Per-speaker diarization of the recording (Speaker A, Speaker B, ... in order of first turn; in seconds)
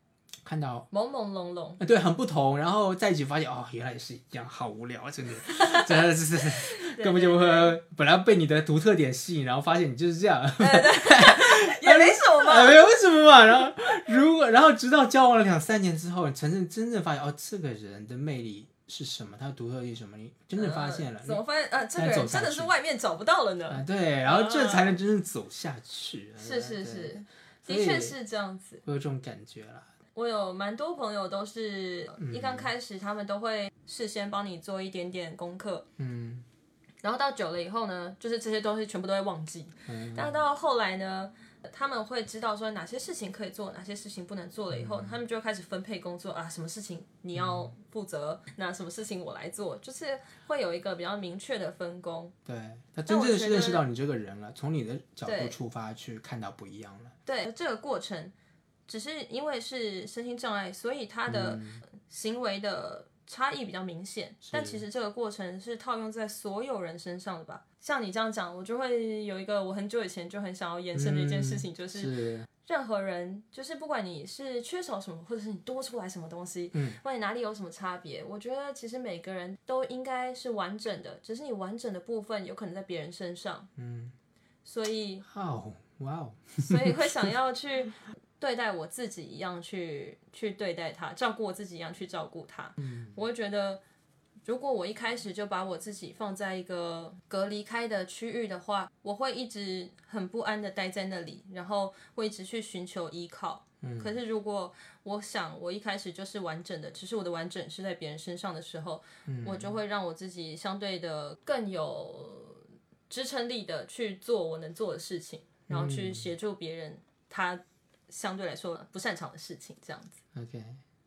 Speaker A: 0.5-0.9, 1.8-21.4, 21.9-22.7, 23.7-28.2, 28.8-29.9, 32.2-32.7, 36.0-36.5, 39.9-40.4, 44.7-45.2, 47.4-47.7, 52.5-57.1, 61.3-61.8, 64.4-64.8, 70.9-72.5, 83.8-84.2, 85.3-87.3, 92.8-93.2, 103.8-104.2, 109.3-109.8, 115.7-116.3, 120.3-120.8
Speaker B: 0.9-1.8, 6.8-7.7, 10.6-12.8, 20.6-25.0, 26.4-28.8, 30.1-35.9, 37.0-52.4, 53.1-53.8, 55.2-55.6, 57.3-58.3, 58.9-72.1, 72.6-83.7, 84.7-85.2, 86.6-93.8, 94.5-120.2